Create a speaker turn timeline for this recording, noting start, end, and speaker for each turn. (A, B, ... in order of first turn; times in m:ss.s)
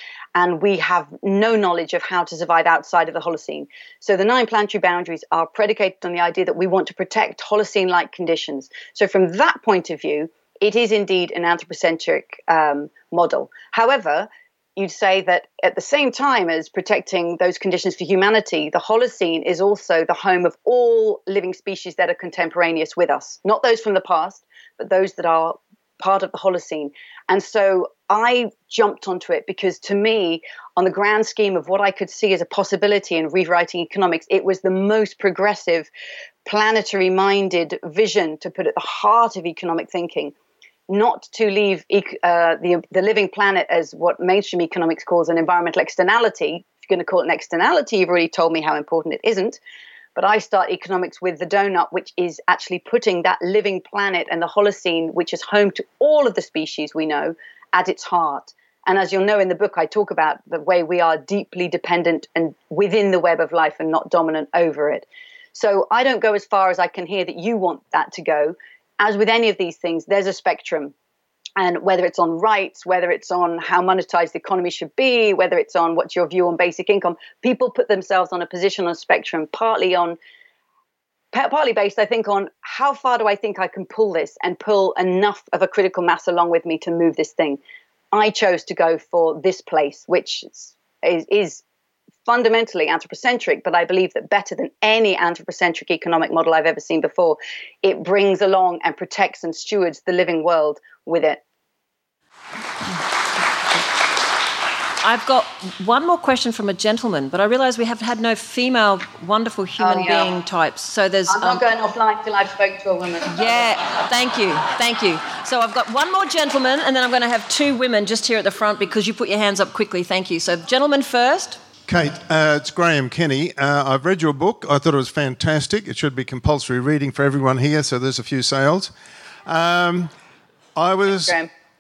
0:00.4-0:35.9 A
0:36.5-0:40.4 A
0:40.9-0:49.6 A
0:50.2-1:10.9 A
1:11.6-1:20.2 A
1:21.3-1:27.6 A
1:28.1-1:31.6 A
1:32.3-1:41.4 A
1:45.0-1:51.6 B
1:49.8-1:50.4 A
1:51.3-1:53.7 A
1:53.3-2:01.6 B
2:01.9-2:08.9 C
2:09.5-2:10.1 C
2:10.8-2:11.4 C
2:11.2-2:11.5 A